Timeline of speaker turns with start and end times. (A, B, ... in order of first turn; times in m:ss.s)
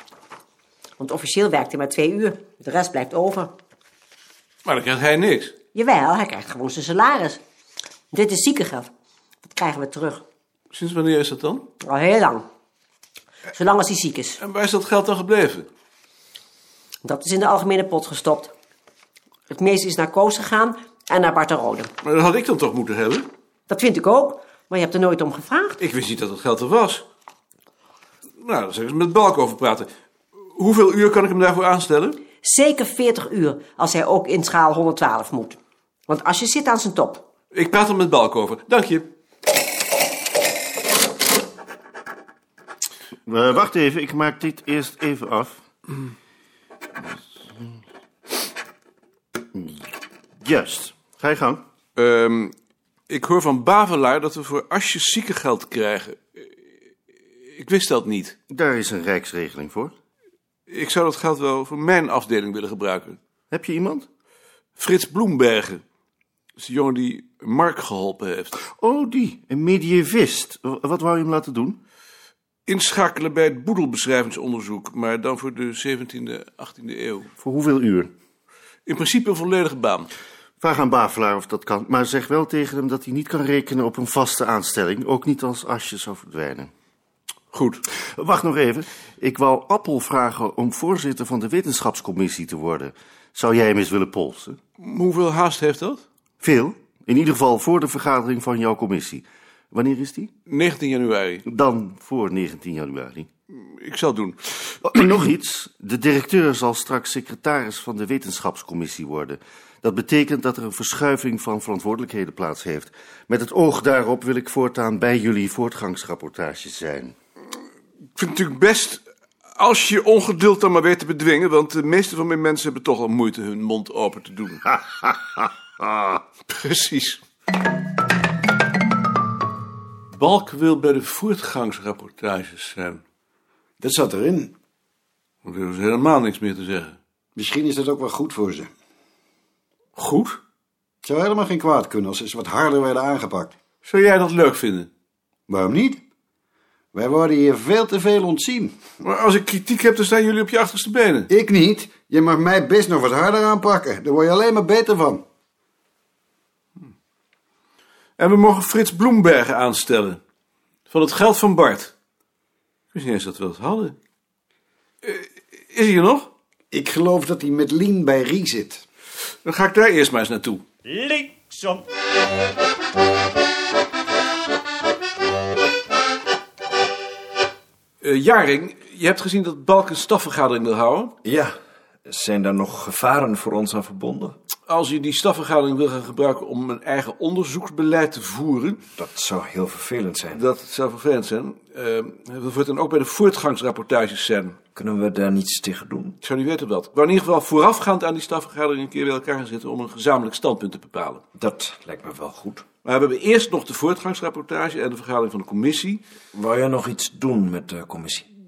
0:01.0-0:03.5 A
0:04.6-0:05.5 B
0:05.7-0:07.4 A
0:08.1-0:08.9 A
0:09.4-0:10.2 A
0:10.7-0:11.7 B
0:11.8-0:12.5 A
0:13.5-0:14.4 A
0:14.4-0:15.7 B
0:17.0-0:18.5 A
0:19.5-0:21.9 A
0:22.0-0:23.3 B
0:23.7-0:25.8 A
0:25.8-0:27.0 B
0:28.4-0:32.2 B
0:32.4-0:37.2 A
0:37.5-0:39.1 B
0:43.2-0:45.6 C
0:49.5-0:49.8 C
0:50.4-0:51.6 C
0:52.0-0:52.5 B
0:53.1-0:56.5 B
0:57.4-0:58.4 B
0:58.5-0:59.9 C
1:00.7-1:03.2 B
1:03.5-1:04.0 C
1:04.8-1:05.8 B
1:06.6-1:08.5 B
1:08.6-1:11.8 C
1:12.6-1:17.3 B
1:17.4-1:18.1 C
1:18.8-1:20.1 B
1:20.6-1:26.7 C
1:27.5-1:27.8 B
1:28.2-1:34.6 C
1:34.8-1:36.0 B
1:36.4-1:40.3 C
1:40.5-1:41.4 B
1:41.4-1:43.3 C
1:43.5-1:44.8 B
1:44.8-1:57.1 C
1:58.2-2:04.8 B
2:06.5-2:07.2 B
2:10.1-2:13.0 B
2:13.8-2:14.5 D
2:15.4-2:17.0 B
2:17.4-2:18.7 D
2:20.0-2:20.4 B
2:21.0-2:23.5 D
2:23.8-2:24.9 B
2:25.5-2:26.0 D
2:26.9-2:28.8 D
2:29.0-2:31.3 B
2:31.3-2:35.2 D
2:38.2-2:40.2 B
2:40.9-2:41.9 B
2:42.9-2:44.0 B
2:45.0-2:46.3 B
2:46.7-2:48.8 D
2:49.4-2:50.6 B
2:50.9-2:51.8 D
2:58.0-3:01.1 B
3:01.2-3:04.4 E
3:04.7-3:08.8 B
3:09.0-3:10.4 E
3:10.3-3:14.6 B
3:14.7-3:16.2 E
3:16.2-3:21.2 B
3:21.4-3:22.6 E
3:22.8-3:26.0 B
3:26.3-3:28.2 E